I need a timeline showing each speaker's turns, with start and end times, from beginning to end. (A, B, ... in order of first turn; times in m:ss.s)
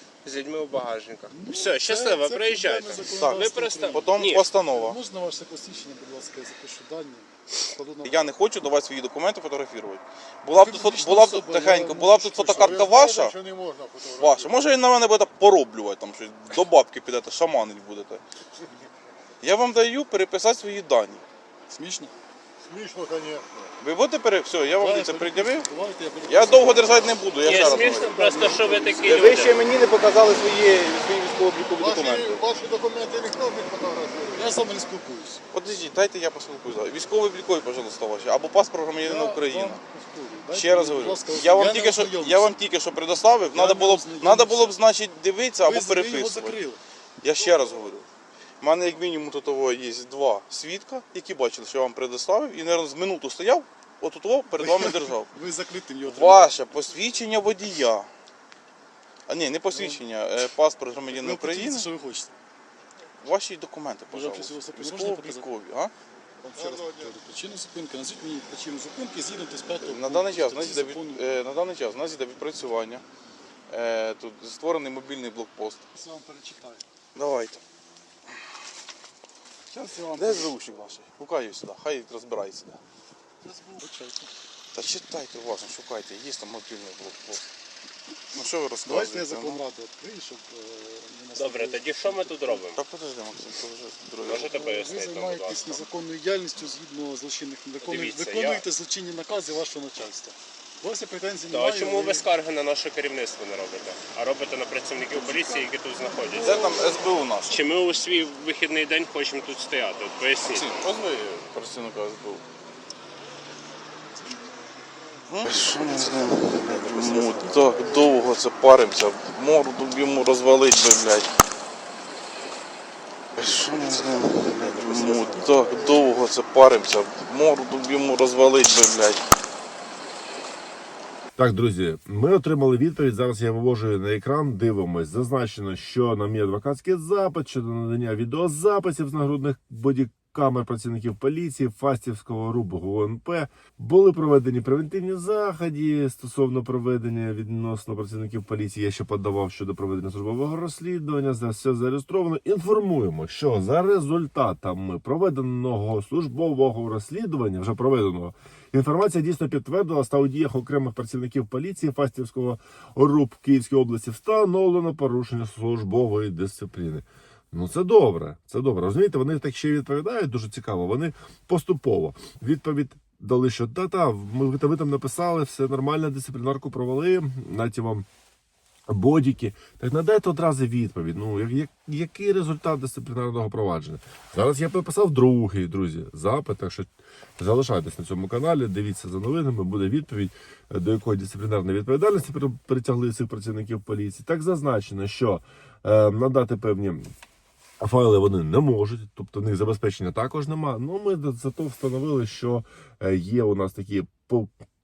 0:00.2-0:04.5 A
0:01.3-0:08.3 B
0:03.2-0:05.0 C
0:08.0-0:13.4 C
0:10.5-0:12.7 B
0:12.6-0:14.6 D
0:14.2-0:18.2 C
0:19.4-0:21.2 C
0:21.7-0:22.1 B
0:22.7-0:23.5 D
0:23.8-0:25.6 C
0:24.8-0:29.4 B
0:26.2-0:28.2 C
0:27.4-0:29.6 A
0:29.0-0:32.5 C
0:31.8-0:34.5 D
0:34.4-0:35.4 B
0:35.5-0:39.8 C
0:39.0-0:42.6 B
0:40.5-0:46.6 C
0:43.5-0:44.8 B
0:45.6-0:46.8 B
0:47.2-0:48.1 C
0:48.6-0:55.3 C
0:54.5-0:56.6 B
0:56.0-0:58.1 C
0:59.3-1:01.9 C
0:59.7-1:00.0 B
1:01.1-1:02.3 B
1:03.2-1:05.9 C
1:04.1-1:05.5 B
1:06.4-1:11.2 B
1:06.6-1:07.1 D
1:09.8-1:13.0 C
1:13.7-1:15.8 C
1:15.9-1:16.8 B
1:17.1-1:17.6 C
1:19.7-1:20.5 B
1:20.1-1:22.8 C
1:23.4-1:24.3 B
1:24.7-1:27.4 C
1:28.3-1:29.6 C
1:28.8-1:32.6 B
1:31.4-1:32.8 A
1:32.7-1:34.5 C
1:34.2-1:35.8 A
1:34.5-1:42.3 B
1:37.8-1:38.6 A
1:41.5-1:46.8 A
1:45.0-1:46.8 B
1:46.4-1:47.6 C
1:47.4-1:50.7 A
1:50.5-1:52.4 C
1:55.3-2:01.3 C
2:03.4-2:09.2 C
2:11.4-2:58.0 E
2:58.9-3:17.1 E
3:17.8-3:24.5 E